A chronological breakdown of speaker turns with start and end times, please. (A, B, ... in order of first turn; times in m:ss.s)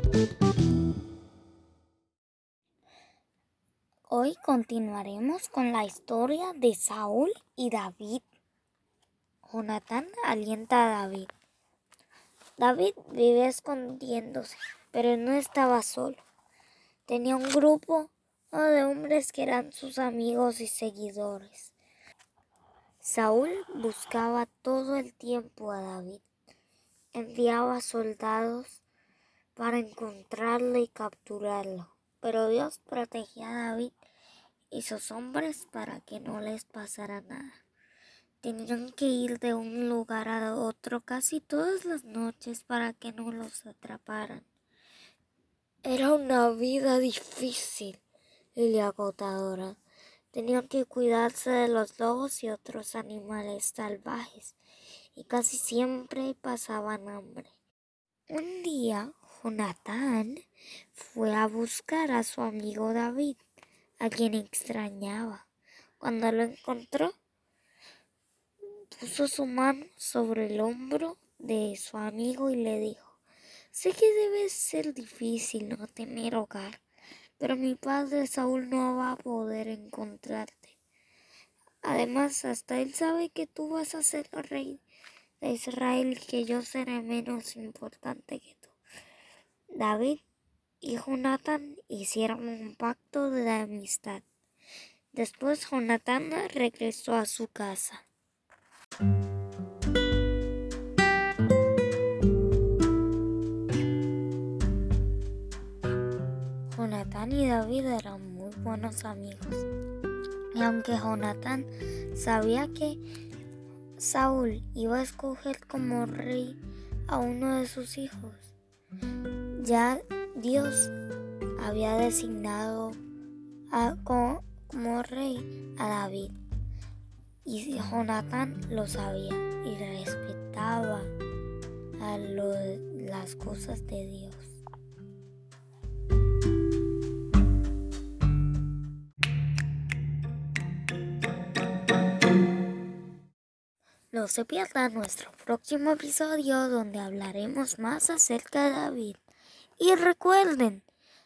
0:04.1-0:08.2 A
0:09.4-0:11.3 A
0:12.6-0:16.2 A
0:17.0-0:21.7 A
0:23.0-0:26.2 A
0:27.1-0:28.8 A
0:29.5-0:33.9 A
0:34.7-0:37.6 A
0:38.4-0:44.5 A
0:45.8-0:48.0 A
0:48.6-0:49.8 A
0:50.3-0:54.6 A
0:55.1-0:57.5 A
0:58.3-1:00.4 A
1:00.9-1:03.4 A
1:04.0-1:05.4 A
1:06.0-1:07.1 A
1:08.9-1:13.2 A
1:13.7-1:16.8 A
1:17.4-1:20.8 A
1:21.8-1:24.8 A
1:25.4-1:28.8 A
1:29.7-1:30.2 A
1:30.8-1:34.2 A
1:35.1-1:38.0 A
1:46.7-1:49.7 A
1:50.5-1:53.0 A
1:54.0-1:58.5 A
1:59.6-2:00.9 A
2:01.6-2:03.0 A
2:03.7-2:06.3 A
2:07.4-2:11.1 A
2:12.0-2:14.6 A
2:24.1-2:29.2 A
2:29.8-2:30.8 A